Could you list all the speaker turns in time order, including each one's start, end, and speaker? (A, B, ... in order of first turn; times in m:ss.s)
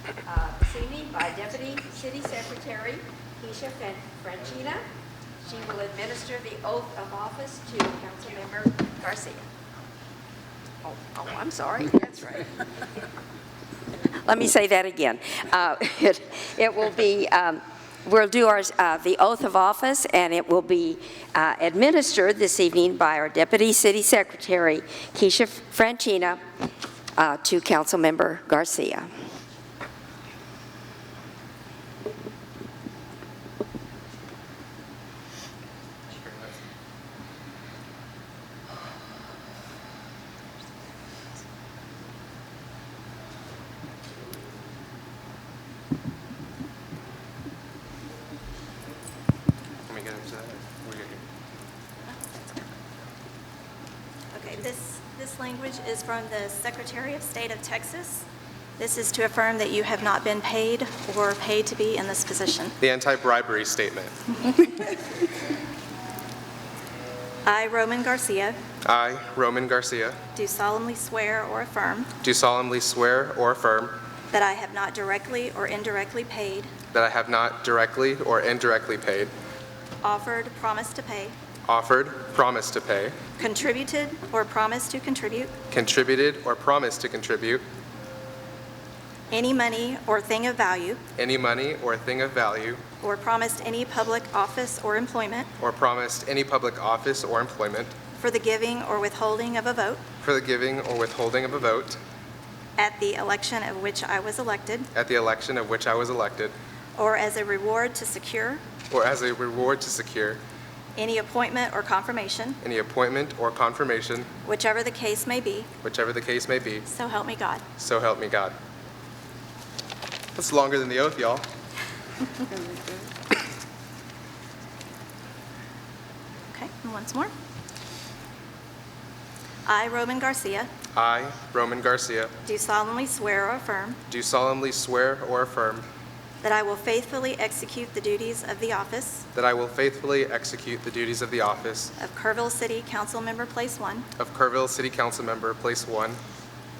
0:00.3-0:04.8 A
0:05.5-0:09.5 A
0:10.8-0:12.6 A
0:14.2-0:26.4 A
0:27.2-0:29.1 A
0:36.1-0:36.6 B
0:49.9-0:51.2 B
0:52.1-0:52.7 C
0:54.3-1:02.8 C
1:02.8-1:04.1 B
1:07.4-1:08.6 C
1:08.8-1:10.2 B
1:10.4-1:12.1 C
1:12.2-1:14.0 B
1:14.3-1:16.7 C
1:16.9-1:19.3 B
1:20.0-1:21.4 C
1:21.7-1:23.2 B
1:23.4-1:25.5 C
1:25.7-1:27.6 B
1:29.3-1:31.0 C
1:31.2-1:32.8 B
1:33.0-1:35.5 C
1:35.6-1:38.0 B
1:38.2-1:40.0 C
1:40.2-1:42.0 B
1:42.8-1:44.9 C
1:44.9-1:46.6 B
1:47.0-1:48.6 C
1:48.9-1:50.4 B
1:51.0-1:52.6 C
1:52.6-1:54.3 B
1:54.4-1:55.7 C
1:55.8-1:56.9 B
1:56.9-1:57.6 C
1:57.8-1:58.6 B
2:00.4-2:01.5 B
2:06.5-2:07.3 C
2:09.7-2:10.7 C
2:10.9-2:12.3 B
2:12.4-2:14.0 C
2:14.1-2:15.8 B
2:16.4-2:19.3 C
2:19.4-2:21.9 B
2:22.0-2:24.1 C
2:24.2-2:26.2 B